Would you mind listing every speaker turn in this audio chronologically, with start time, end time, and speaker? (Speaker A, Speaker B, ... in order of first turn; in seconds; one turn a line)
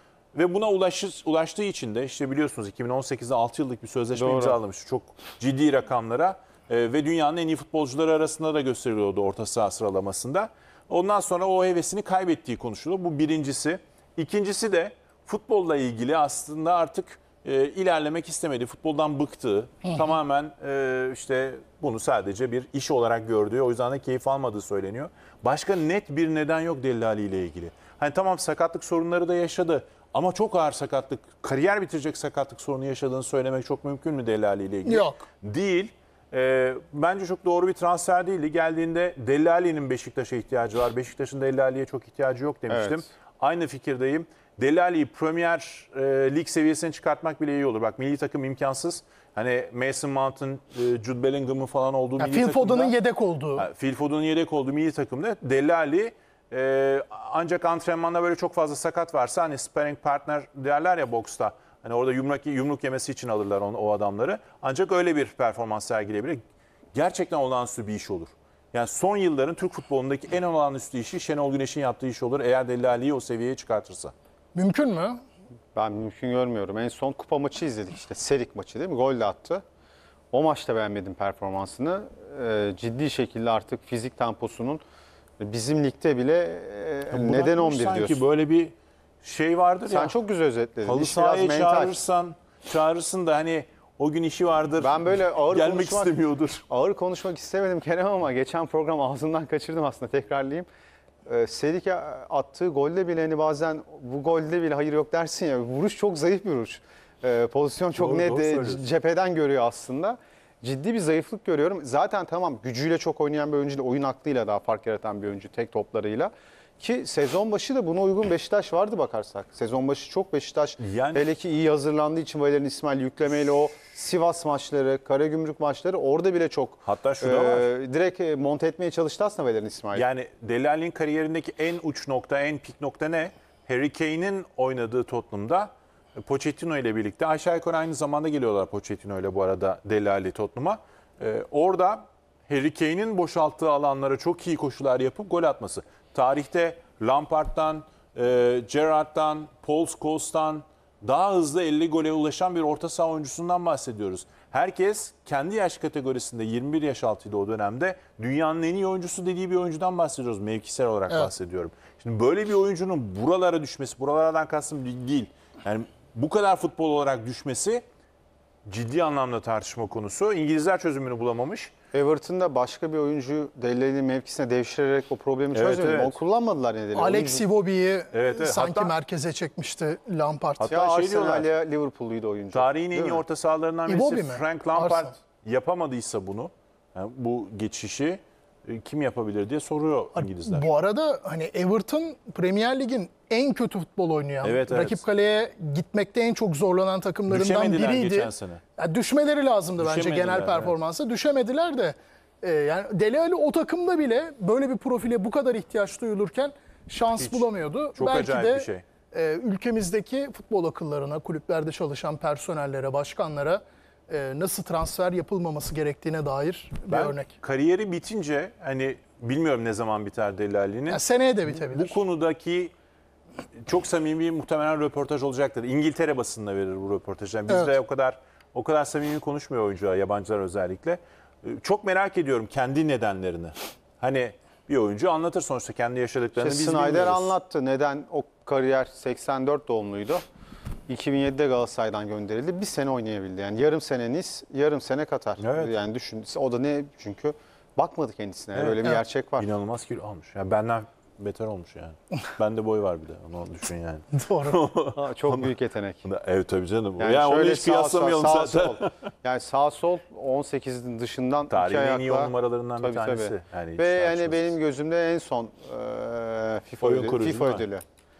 Speaker A: 0.3-52.9
Speaker B: 4.1-4.6
Speaker C: 34.9-35.2
Speaker B: 42.7-43.0
Speaker C: 52.2-53.7
Speaker A: 53.5-66.4
Speaker A: 66.9-74.1
Speaker C: 74.5-75.2
Speaker B: 75.7-79.6
Speaker B: 80.3-84.8
Speaker B: 85.4-88.2
Speaker A: 87.1-90.1
Speaker B: 89.9-92.0
Speaker A: 90.8-96.6
Speaker B: 94.8-100.7
Speaker B: 101.2-130.1
Speaker A: 108.0-108.8
Speaker A: 120.8-121.2
Speaker A: 126.8-127.7
Speaker A: 129.9-167.8
Speaker A: 168.7-171.7
Speaker B: 171.9-177.4
Speaker A: 175.5-176.2
Speaker C: 176.9-180.7
Speaker A: 178.1-178.9
Speaker A: 180.6-181.5
Speaker B: 180.7-183.2
Speaker A: 182.5-190.7
Speaker C: 183.8-185.1
Speaker C: 190.2-217.3
Speaker A: 194.4-195.0
Speaker A: 197.3-198.6
Speaker A: 199.8-200.7
Speaker A: 207.2-208.8
Speaker A: 216.9-222.7
Speaker C: 220.9-222.0
Speaker A: 223.6-237.3
Speaker C: 227.5-227.7
Speaker B: 236.4-240.2
Speaker B: 240.9-249.5
Speaker A: 245.4-245.8
Speaker A: 248.5-255.5
Speaker C: 254.1-254.6
Speaker B: 254.9-256.0
Speaker A: 256.0-258.9
Speaker B: 257.0-267.8
Speaker A: 261.5-264.6
Speaker A: 266.8-267.6